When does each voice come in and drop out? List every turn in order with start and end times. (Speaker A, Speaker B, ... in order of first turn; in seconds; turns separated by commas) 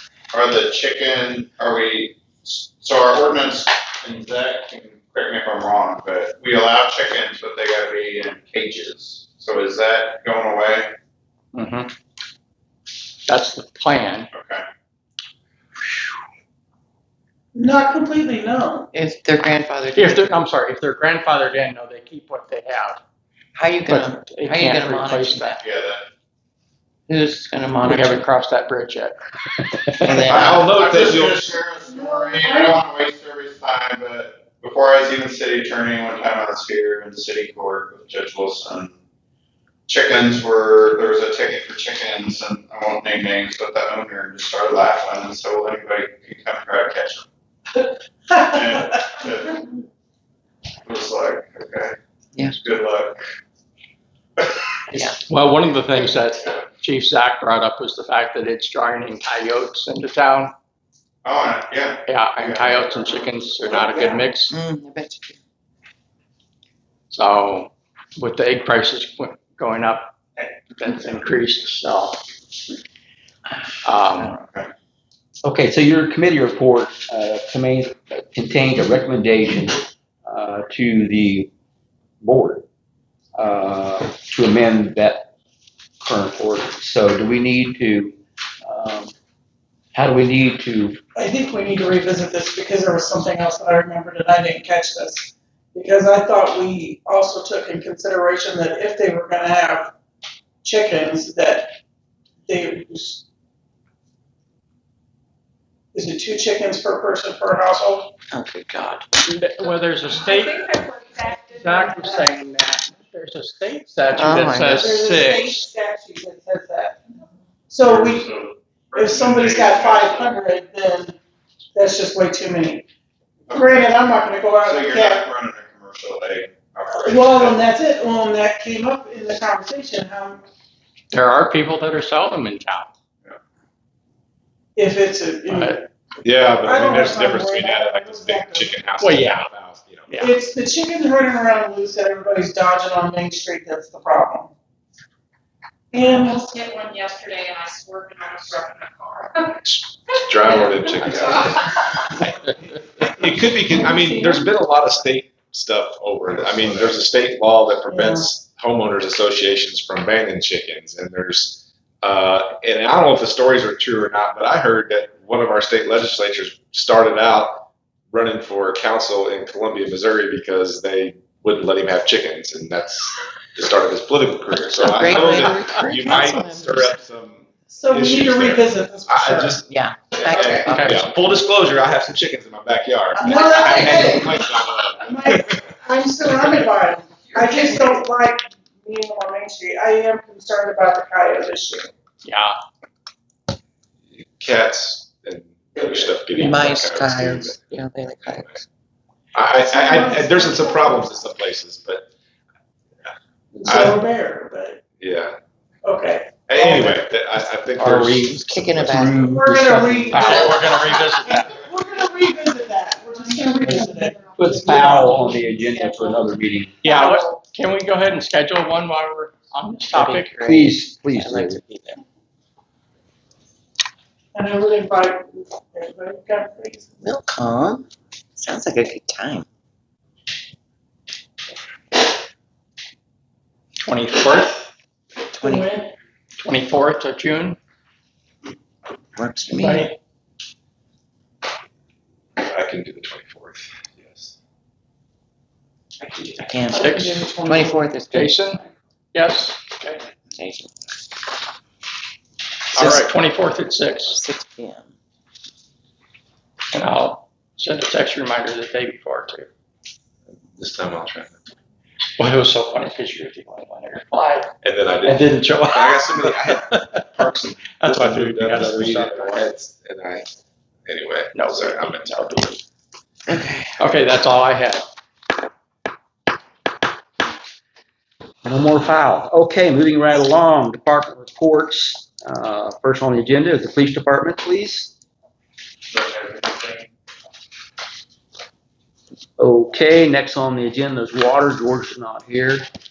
Speaker A: 0.3-10.9, Speaker B: 11.5-11.9, Speaker B: 13.3-14.3, Speaker A: 14.3-14.6, Speaker C: 17.5-18.9, Speaker D: 18.9-20.3, Speaker B: 19.9-23.0, Speaker D: 23.6-25.6, Speaker B: 23.9-25.6, Speaker A: 25.6-26.0, Speaker D: 27.1-28.2, Speaker B: 27.8-29.2, Speaker B: 29.9-30.5, Speaker D: 30.0-30.7, Speaker E: 30.2-31.6, Speaker A: 30.3-38.9, Speaker C: 31.8-32.8, Speaker A: 39.9-47.3, Speaker A: 48.4-49.6, Speaker A: 50.8-53.2, Speaker D: 54.9-55.2, Speaker B: 55.2-60.5, Speaker A: 61.2-64.0, Speaker B: 62.0-64.6, Speaker D: 63.7-65.4, Speaker B: 67.1-72.2, Speaker B: 73.8-74.3, Speaker A: 74.1-74.7, Speaker F: 75.4-81.5, Speaker F: 82.2-82.7, Speaker F: 83.4-85.3, Speaker F: 86.0-89.1, Speaker F: 89.9-91.0, Speaker C: 91.2-99.9, Speaker C: 100.6-101.7, Speaker C: 102.5-103.2, Speaker C: 105.9-108.1, Speaker D: 108.3-109.1, Speaker B: 109.3-115.7, Speaker G: 110.2-111.7, Speaker C: 111.8-112.2, Speaker D: 114.1-115.0, Speaker C: 114.7-117.0, Speaker C: 117.7-118.3, Speaker A: 117.8-120.3, Speaker C: 118.9-121.2, Speaker C: 121.8-122.9, Speaker A: 123.5-123.8, Speaker C: 123.5-125.2, Speaker A: 124.6-127.7, Speaker C: 126.9-130.4, Speaker B: 131.1-132.9, Speaker C: 134.8-135.9, Speaker B: 135.5-135.8, Speaker E: 136.2-140.2, Speaker C: 136.6-138.9, Speaker B: 138.9-139.5, Speaker C: 140.2-144.5, Speaker C: 145.9-146.5, Speaker G: 146.0-149.6, Speaker E: 149.6-152.3, Speaker G: 150.6-151.2, Speaker E: 153.0-185.8, Speaker C: 153.5-154.5, Speaker C: 157.9-158.3, Speaker D: 174.6-177.0, Speaker B: 175.3-176.2, Speaker C: 177.7-179.6, Speaker D: 179.7-181.2, Speaker B: 180.7-181.1, Speaker C: 183.2-191.9, Speaker D: 183.3-184.3, Speaker D: 187.7-187.9, Speaker B: 192.2-192.6, Speaker E: 194.1-198.6, Speaker D: 196.3-198.6, Speaker E: 199.3-202.1, Speaker C: 199.5-201.3, Speaker C: 203.5-204.8, Speaker E: 203.7-204.0, Speaker E: 205.0-205.4, Speaker C: 205.8-207.0, Speaker E: 206.5-208.9, Speaker F: 207.8-210.4, Speaker D: 208.3-209.4, Speaker C: 209.3-217.4, Speaker B: 210.1-211.7, Speaker F: 214.4-216.8, Speaker B: 216.8-220.3, Speaker D: 219.9-222.0, Speaker F: 220.4-221.6, Speaker C: 224.3-226.9, Speaker D: 227.0-229.5, Speaker B: 233.8-234.6, Speaker D: 235.3-235.8, Speaker C: 235.4-235.9, Speaker B: 236.4-237.6, Speaker D: 239.2-239.9, Speaker B: 239.5-240.0, Speaker E: 242.4-244.3, Speaker D: 246.1-248.3, Speaker B: 246.7-247.2, Speaker C: 246.8-247.8, Speaker B: 248.1-248.6, Speaker B: 249.1-250.0, Speaker D: 250.4-250.9, Speaker D: 252.7-253.1, Speaker E: 252.8-253.1, Speaker B: 252.8-254.2, Speaker D: 254.1-254.9, Speaker B: 256.7-259.5, Speaker E: 260.3-261.4, Speaker B: 262.2-264.5, Speaker E: 264.6-270.3, Speaker B: 265.0-269.5, Speaker E: 270.9-272.5, Speaker B: 271.3-272.6, Speaker D: 273.3-273.7, Speaker B: 273.8-274.9, Speaker F: 278.4-284.9, Speaker A: 285.9-286.9, Speaker F: 289.4-292.7